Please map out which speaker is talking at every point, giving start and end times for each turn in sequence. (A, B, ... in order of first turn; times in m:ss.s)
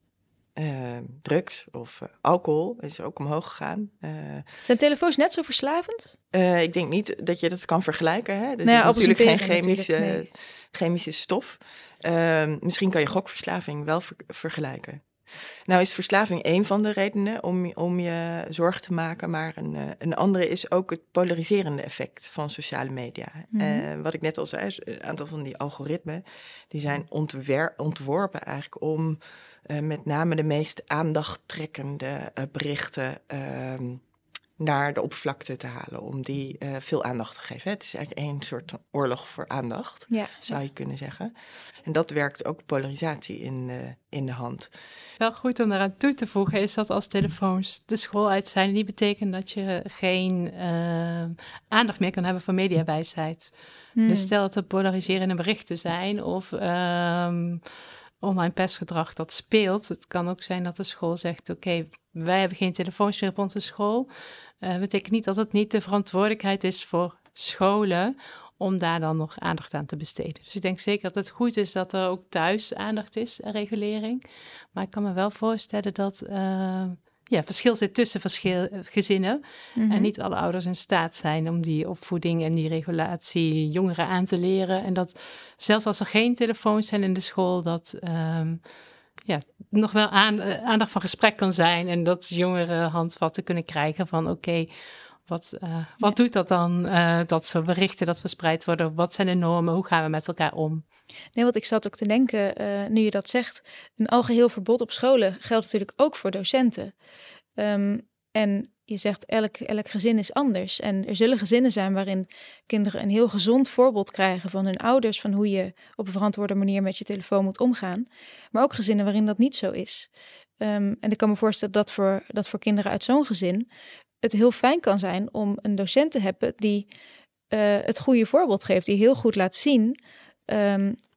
0:00.6-0:04.5 A
0:04.6-0:06.2 B
0:06.3-0:34.0 A
0:08.6-0:10.3 B
0:23.5-0:23.9 B
0:34.6-0:44.7 A
0:40.1-0:40.5 B
0:45.2-0:53.5 C
0:54.0-0:54.3 B
0:54.0-0:57.6 C
0:58.2-1:04.1 C
1:04.6-1:28.6 C
1:19.8-1:20.1 B
1:29.2-1:34.7 C
1:35.2-1:40.8 C
1:41.4-1:46.9 B
1:47.6-2:03.7 B
2:04.2-2:06.9 B
2:07.5-2:10.0 B
2:10.5-2:11.0 B